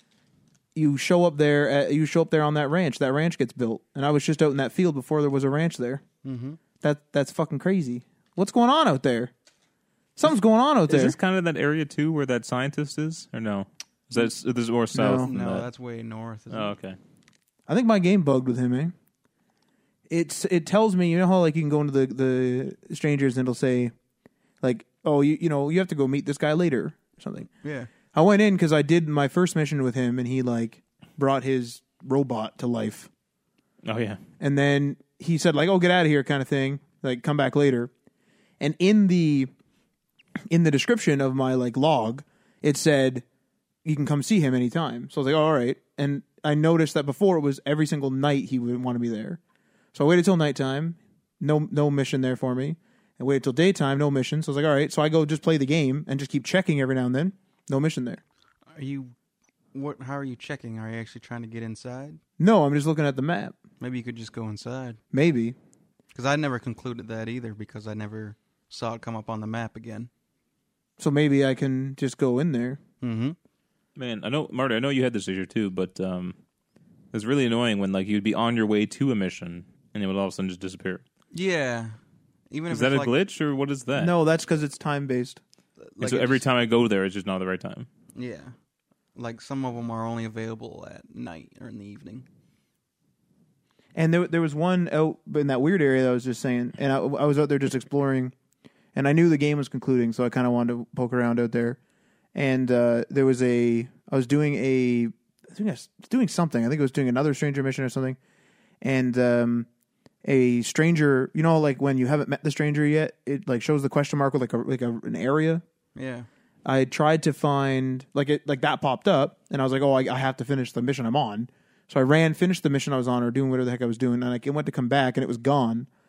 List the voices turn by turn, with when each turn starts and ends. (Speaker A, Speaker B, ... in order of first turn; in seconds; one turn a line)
Speaker A: 0.7-6.0
Speaker B: 6.2-6.6
Speaker A: 6.8-9.3
Speaker A: 10.2-11.2
Speaker C: 10.9-15.6
Speaker A: 14.9-15.3
Speaker B: 15.2-16.7
Speaker C: 16.5-17.0
Speaker A: 17.7-18.9
Speaker A: 20.1-23.9
Speaker A: 24.6-27.5
Speaker B: 27.6-27.9
Speaker A: 28.1-33.1
Speaker C: 33.8-34.2
Speaker A: 34.4-37.9
Speaker A: 38.6-39.5
Speaker A: 40.5-43.2
Speaker A: 43.8-49.4
Speaker A: 49.9-58.2
Speaker B: 58.7-59.1
Speaker B: 59.7-62.2
Speaker A: 62.4-63.5
Speaker B: 63.8-65.0
Speaker A: 65.1-65.5
Speaker B: 66.1-70.1
Speaker A: 71.0-72.8
Speaker B: 73.0-73.4
Speaker C: 74.0-76.3
Speaker C: 77.1-81.0
Speaker B: 81.3-82.0
Speaker B: 82.5-83.1
Speaker C: 82.7-84.1
Speaker A: 84.0-85.4
Speaker B: 85.8-86.4
Speaker C: 86.0-87.9
Speaker B: 88.1-88.5
Speaker B: 89.1-92.3
Speaker A: 93.9-98.3
Speaker A: 98.9-101.8
Speaker A: 102.3-108.2
Speaker A: 108.8-109.7
Speaker A: 110.2-115.6
Speaker B: 115.9-116.3
Speaker A: 116.6-125.9